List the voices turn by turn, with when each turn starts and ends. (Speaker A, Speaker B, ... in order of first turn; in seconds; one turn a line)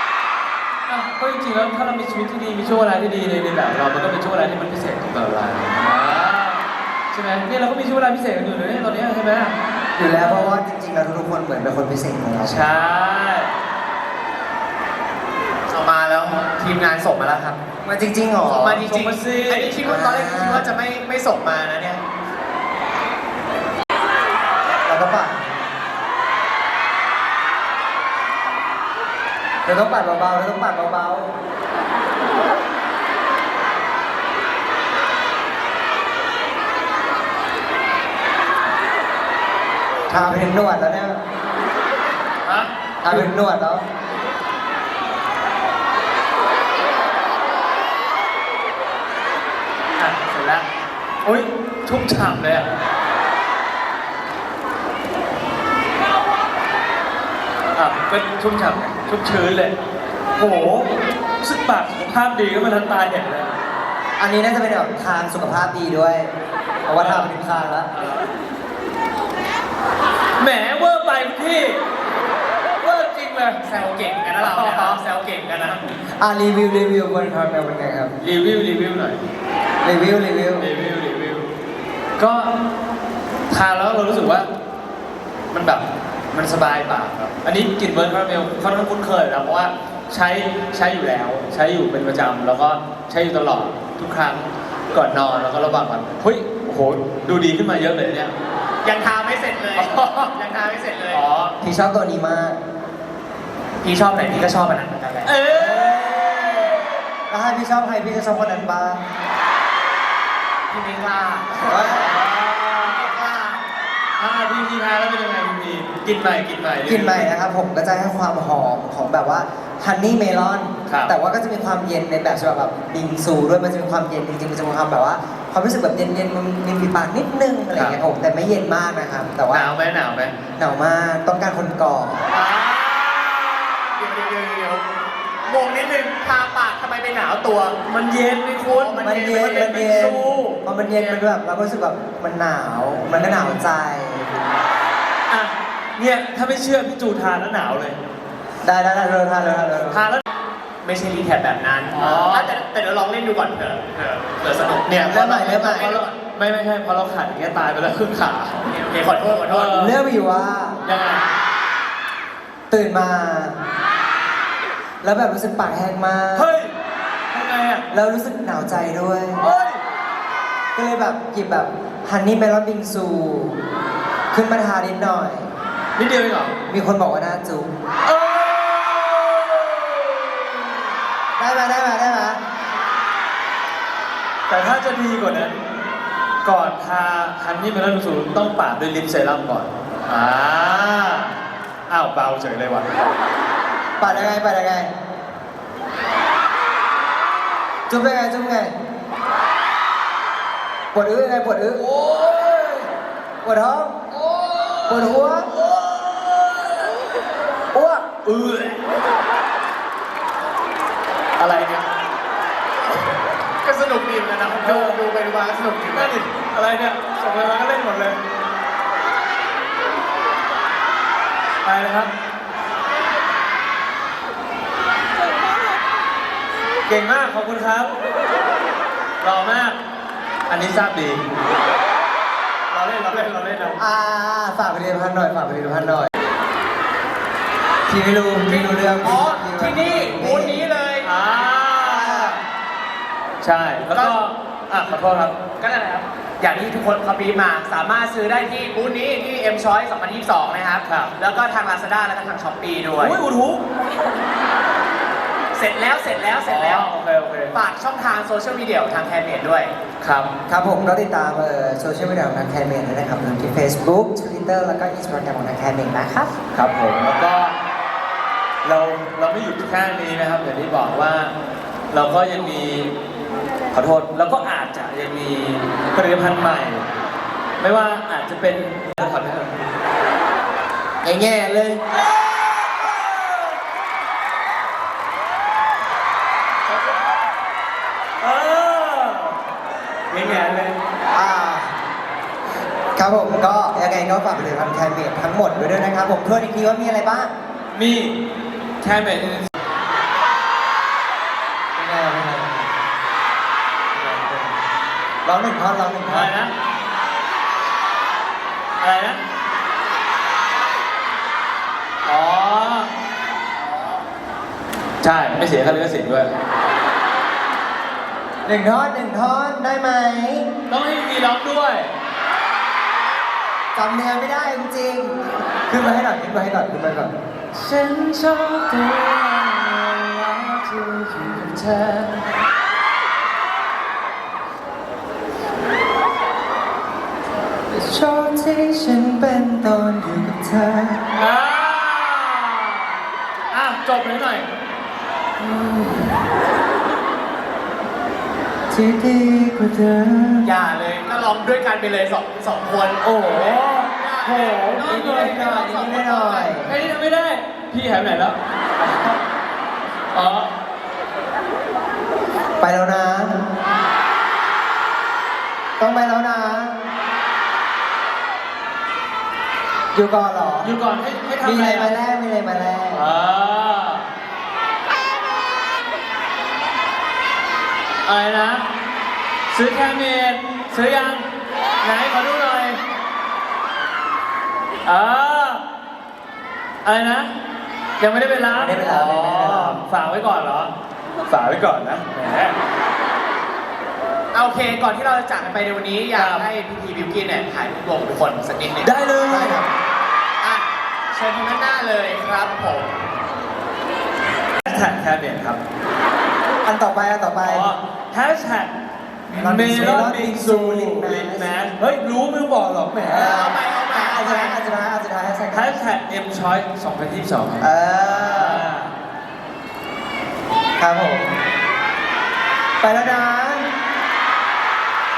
Speaker A: 0.9-10.6
Speaker B: 10.0-12.6
Speaker A: 12.4-13.5
Speaker C: 15.7-17.6
Speaker B: 17.8-18.8
Speaker A: 18.4-19.8
Speaker C: 18.5-22.0
Speaker B: 19.8-20.7
Speaker B: 24.9-25.4
Speaker B: 29.7-31.3
Speaker B: 40.1-41.2
Speaker A: 42.4-43.2
Speaker B: 43.0-43.9
Speaker A: 50.0-50.7
Speaker A: 51.2-52.7
Speaker A: 57.7-59.8
Speaker A: 60.4-60.9
Speaker A: 61.4-63.5
Speaker B: 64.2-66.3
Speaker B: 66.9-67.9
Speaker A: 67.0-67.3
Speaker A: 67.9-68.3
Speaker A: 70.4-71.8
Speaker A: 72.8-73.6
Speaker C: 73.6-75.8
Speaker A: 74.4-75.0
Speaker B: 76.2-78.2
Speaker A: 78.2-79.2
Speaker B: 79.8-80.7
Speaker A: 80.6-81.5
Speaker A: 82.2-82.5
Speaker A: 83.5-84.5
Speaker A: 85.5-98.3
Speaker C: 98.8-101.2
Speaker A: 99.8-100.3
Speaker A: 101.1-101.5
Speaker B: 101.6-102.6
Speaker C: 103.8-105.3
Speaker A: 105.2-106.8
Speaker B: 105.5-106.8
Speaker B: 107.3-109.0
Speaker C: 110.7-113.6
Speaker B: 111.6-112.2
Speaker A: 111.8-113.1
Speaker A: 114.2-117.3
Speaker B: 116.8-129.7
Speaker A: 120.9-121.1
Speaker A: 127.7-128.0
Speaker A: 129.5-130.3
Speaker B: 130.6-132.2
Speaker A: 132.3-134.0
Speaker C: 134.0-134.9
Speaker C: 135.4-137.8
Speaker A: 137.9-141.2
Speaker C: 138.6-139.3
Speaker B: 139.0-144.3
Speaker A: 143.1-143.5
Speaker A: 145.3-148.0
Speaker B: 148.6-150.0
Speaker A: 149.9-150.2
Speaker C: 150.8-156.1
Speaker A: 151.9-152.5
Speaker A: 154.8-158.6
Speaker B: 155.0-155.9
Speaker C: 158.6-159.7
Speaker A: 159.5-160.0
Speaker B: 159.7-160.8
Speaker A: 160.8-161.2
Speaker B: 162.7-163.6
Speaker B: 165.0-166.5
Speaker A: 166.3-166.7
Speaker A: 167.3-167.8
Speaker B: 167.9-169.4
Speaker A: 169.4-169.8
Speaker B: 170.8-173.6
Speaker B: 174.3-175.5
Speaker A: 176.0-176.6
Speaker B: 176.7-177.7
Speaker A: 178.1-180.8
Speaker B: 181.4-182.4
Speaker A: 184.5-185.6
Speaker A: 186.4-191.4
Speaker A: 191.9-193.1
Speaker B: 194.0-194.9
Speaker A: 194.1-194.3
Speaker B: 197.9-198.7
Speaker B: 200.9-201.8
Speaker A: 201.8-202.9
Speaker B: 203.4-204.0
Speaker A: 204.1-207.1
Speaker B: 204.9-205.5
Speaker A: 208.0-208.8
Speaker A: 211.4-211.9
Speaker C: 213.6-216.2
Speaker A: 214.5-215.0
Speaker A: 215.9-218.2
Speaker A: 221.6-222.1
Speaker A: 226.9-227.9
Speaker A: 229.2-229.8
Speaker A: 230.5-231.2
Speaker A: 232.7-233.8
Speaker B: 233.8-236.1
Speaker B: 237.9-240.6
Speaker C: 239.0-241.1
Speaker A: 241.0-242.4
Speaker B: 241.8-242.4
Speaker A: 243.4-245.3
Speaker C: 243.9-244.2
Speaker C: 245.6-253.2
Speaker A: 250.9-251.1
Speaker A: 253.0-253.6
Speaker C: 255.5-256.9
Speaker A: 256.4-257.6
Speaker C: 257.5-259.7
Speaker A: 260.0-260.3
Speaker B: 260.5-266.3
Speaker A: 266.5-267.6
Speaker A: 268.6-271.3
Speaker A: 271.9-272.9
Speaker A: 273.7-276.9
Speaker A: 277.6-279.7
Speaker B: 281.0-281.8
Speaker A: 281.9-283.6
Speaker A: 288.2-289.4
Speaker A: 290.1-290.8
Speaker B: 291.1-291.7
Speaker B: 292.9-297.3
Speaker A: 297.7-298.2
Speaker A: 298.8-299.5
Speaker B: 301.8-302.7
Speaker B: 303.9-304.3
Speaker A: 304.0-304.4
Speaker B: 305.2-306.3
Speaker A: 306.1-306.5
Speaker A: 308.8-309.2
Speaker A: 312.1-312.9
Speaker A: 315.0-316.3
Speaker B: 318.4-320.5
Speaker A: 320.7-321.9
Speaker B: 323.8-327.1
Speaker A: 327.5-332.3
Speaker B: 337.7-341.2
Speaker A: 341.1-342.9
Speaker A: 343.5-344.5
Speaker B: 345.4-346.1
Speaker B: 348.7-350.5
Speaker C: 350.4-356.6
Speaker A: 353.0-355.6
Speaker B: 354.8-356.7
Speaker A: 356.5-359.2
Speaker A: 360.1-360.5
Speaker B: 362.6-363.4
Speaker B: 365.8-366.9
Speaker B: 369.9-370.7
Speaker A: 370.6-371.9
Speaker B: 371.4-373.1
Speaker A: 372.9-374.1
Speaker A: 378.1-378.6
Speaker A: 379.5-381.3
Speaker A: 381.8-382.8
Speaker A: 384.9-385.6
Speaker A: 386.8-387.3
Speaker A: 388.0-390.7
Speaker B: 388.5-389.8
Speaker A: 391.3-392.6
Speaker C: 394.3-398.9
Speaker A: 396.1-396.5
Speaker A: 398.8-399.6
Speaker B: 399.3-399.7
Speaker C: 400.4-402.9
Speaker A: 404.6-405.6
Speaker B: 406.6-407.7
Speaker A: 407.4-408.7
Speaker A: 409.3-413.4
Speaker B: 409.3-411.5
Speaker B: 413.0-415.7
Speaker C: 413.1-414.6
Speaker A: 415.5-418.9
Speaker B: 417.6-418.7
Speaker B: 420.8-421.3
Speaker B: 422.8-423.7